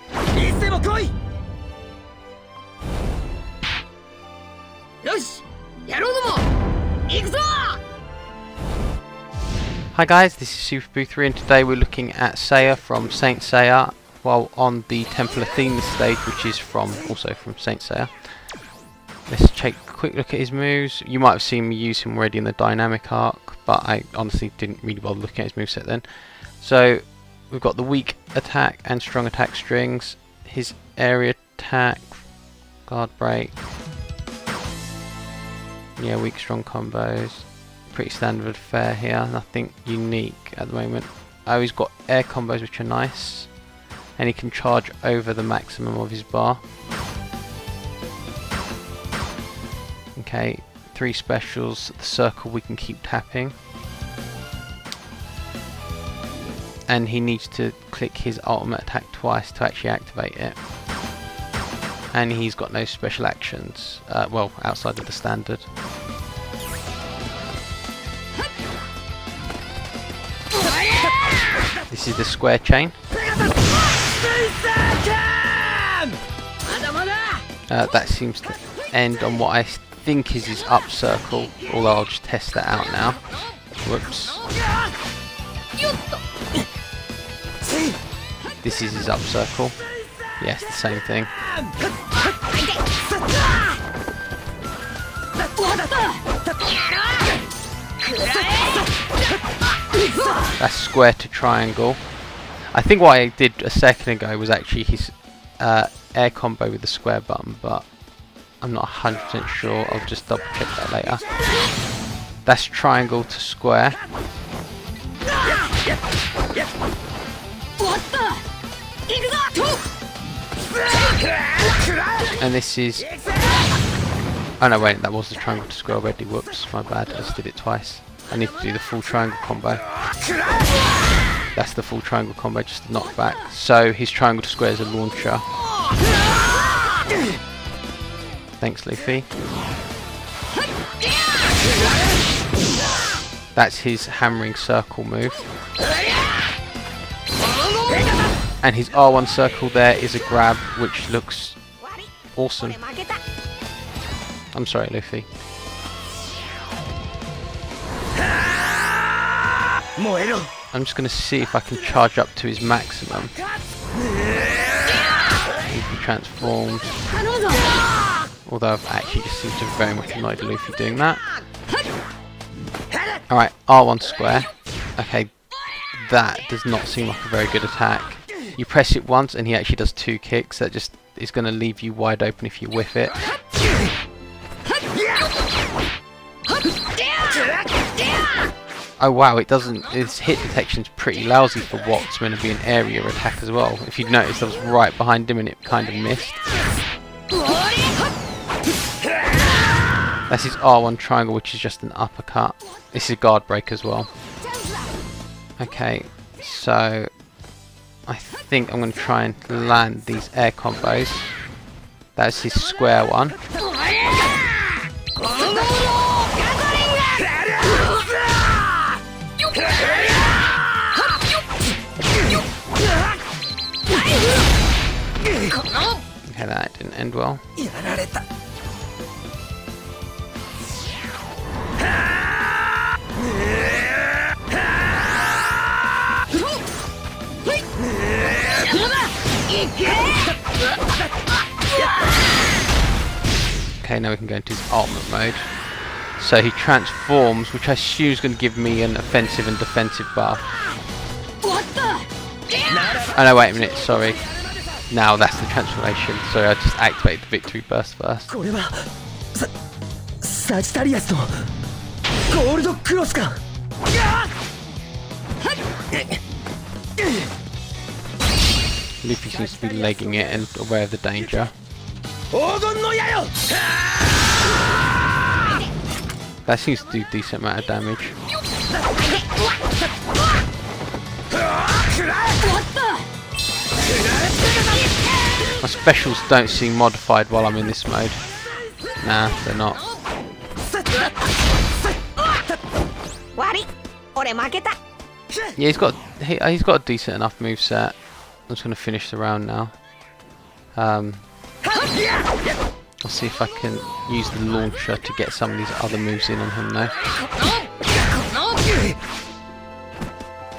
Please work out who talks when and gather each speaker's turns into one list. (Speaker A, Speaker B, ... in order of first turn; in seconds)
Speaker A: 0.3-1.1, 74.2-76.1, 160.0-160.4, 227.8-228.2, 252.7-253.1, 258.4-258.8, 260.2-261.4, 262.3-263.4, 272.3-273.7
Speaker B: 7.1-7.7, 92.5-92.8, 95.8-96.2, 119.1-119.6, 151.8-152.1, 152.8-153.2, 279.0-279.5, 282.5-283.0, 293.4-294.8
Speaker C: 9.9-18.5, 19.3-32.2, 32.8-33.6, 36.0-43.5, 44.2-46.6, 50.1-53.5, 56.9-60.6, 62.1-65.7, 71.9-73.0, 77.7-83.3, 83.8-84.5, 88.6-89.8, 90.4-91.3, 100.6-102.1, 102.7-107.9, 108.6-111.3, 112.4-114.0, 122.4-123.1, 124.6-129.9, 131.5-135.4, 138.6-139.3, 143.6-145.4, 148.6-151.6, 152.3-152.8, 154.5-155.3, 160.7-163.4, 165.6-167.3, 168.4-171.3, 173.3-183.2, 189.0-196.5, 200.3-204.1, 205.6-207.1, 208.1-211.3, 212.2-213.4, 226.3-227.4, 243.8-245.6, 246.1-250.5, 253.0-254.3, 254.9-258.3, 269.0-271.6, 276.4-278.2, 285.6-288.3, 289.0-289.9, 295.6-299.8, 300.7-301.3, 303.0-306.9